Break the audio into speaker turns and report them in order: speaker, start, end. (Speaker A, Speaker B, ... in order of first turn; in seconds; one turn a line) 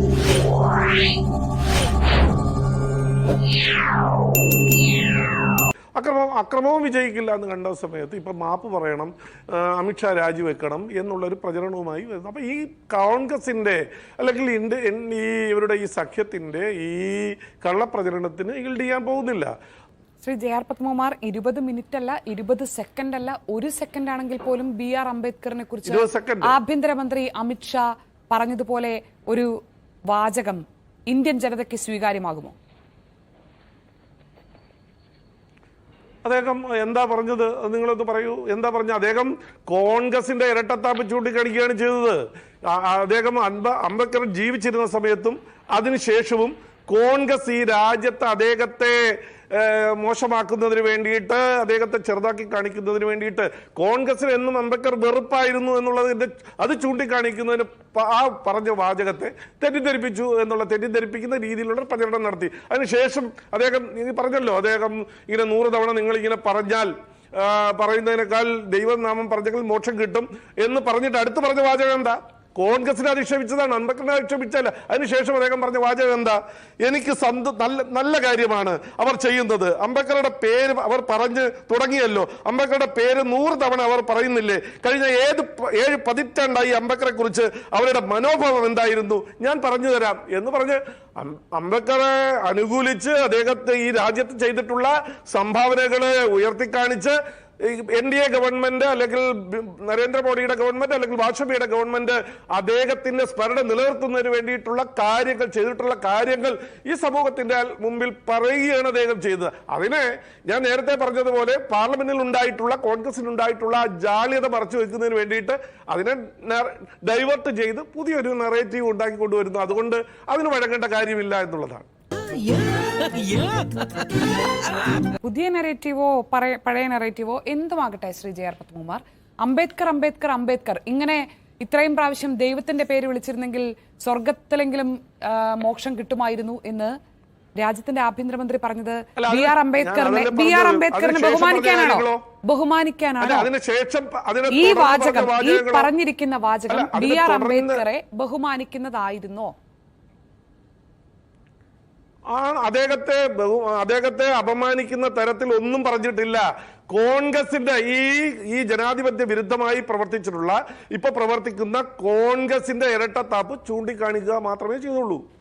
Speaker A: 6.0-19.5
Speaker B: 20.2-29.5
Speaker A: 25.9-26.5
Speaker B: 30.1-32.5
Speaker A: 36.2-121.9
Speaker B: 125.2-136.9
Speaker B: 137.6-143.5
Speaker A: 139.2-142.2
Speaker A: 143.2-145.9
Speaker B: 144.5-149.5
Speaker A: 146.7-147.8
Speaker A: 152.3-165.2